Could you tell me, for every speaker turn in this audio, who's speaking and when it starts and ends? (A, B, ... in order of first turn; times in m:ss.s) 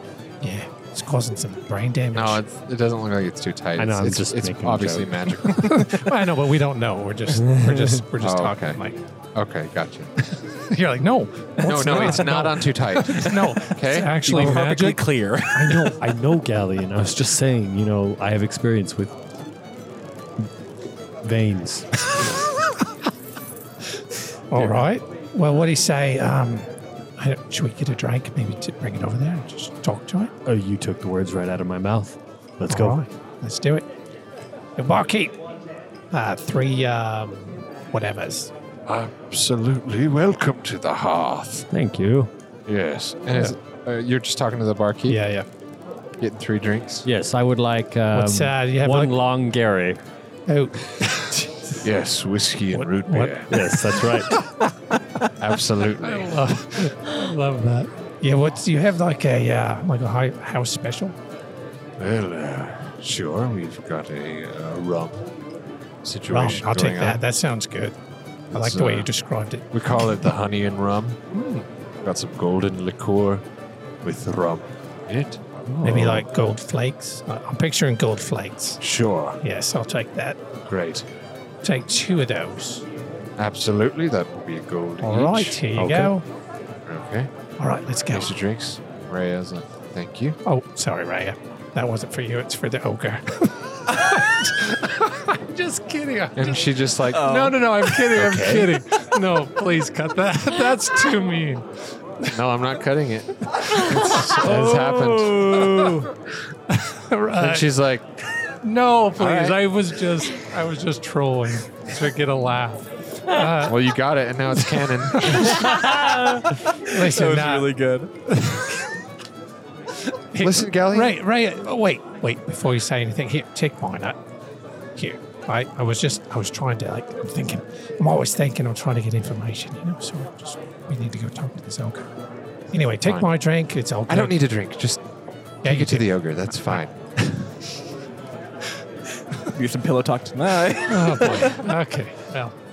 0:00.4-0:02.4 A
0:02.1-0:06.0 B
0:03.8-0:05.2 C
0:05.4-0:09.0 A
0:07.4-0:08.0 C
0:08.2-0:08.8 B
0:09.3-0:10.1 B
0:10.4-0:15.0 A
0:11.6-0:14.2 B
0:14.2-0:15.9 D
0:15.5-0:19.1 C
0:21.2-0:22.2 C
0:24.5-0:30.3 A
0:30.4-0:33.0 C
0:32.7-0:33.9 A
0:34.8-0:35.4 A
0:36.1-0:38.5 A
0:38.8-0:41.7 B
0:41.7-0:42.3 C
0:42.7-0:45.2 B
0:45.1-0:45.5 A
0:46.2-0:47.1 B
0:47.0-0:50.0 C
0:48.1-0:49.2 A
0:50.5-0:51.8 A
0:51.8-0:53.5 B
0:52.8-0:53.6 A
0:53.5-0:54.4 C
0:55.4-0:56.3 B
0:56.0-1:01.2 A
1:02.0-1:05.3 B
1:06.0-1:07.2 B
1:06.3-1:08.0 A
1:08.5-1:09.1 B
1:08.5-1:09.7 A
1:09.7-1:11.2 B
1:11.3-1:11.6 A
1:12.0-1:13.4 B
1:14.0-1:16.2 B
1:15.7-1:16.2 C
1:15.8-1:18.8 A
1:18.8-1:19.4 B
1:19.4-1:20.4 A
1:20.7-1:21.1 B
1:21.6-1:22.8 A
1:23.4-1:25.6 B
1:25.0-1:26.2 A
1:25.8-1:26.1 C
1:26.8-1:27.3 B
1:27.6-1:28.3 A
1:28.1-1:30.4 B
1:30.4-1:36.6 A
1:36.3-1:38.8 B
1:37.1-1:37.6 D
1:37.2-1:41.7 A
1:42.3-1:45.6 B
1:43.6-1:44.6 A
1:44.2-1:46.1 C
1:46.7-1:47.7 A
1:47.4-1:48.0 B
1:48.6-1:53.8 A
1:49.2-1:49.6 D
1:53.6-1:55.8 B
1:55.0-1:56.3 A
1:55.6-1:56.4 C
1:56.0-1:58.1 D
1:56.8-1:57.7 A
1:58.3-1:58.8 A
2:00.3-2:04.2 A
2:00.4-2:01.2 B
2:05.0-2:12.1 A
2:12.7-2:14.3 A
2:13.0-2:13.3 B
2:14.1-2:15.0 B
2:15.6-2:16.8 A
2:15.6-2:17.5 B
2:19.4-2:21.6 D
2:20.9-2:22.5 A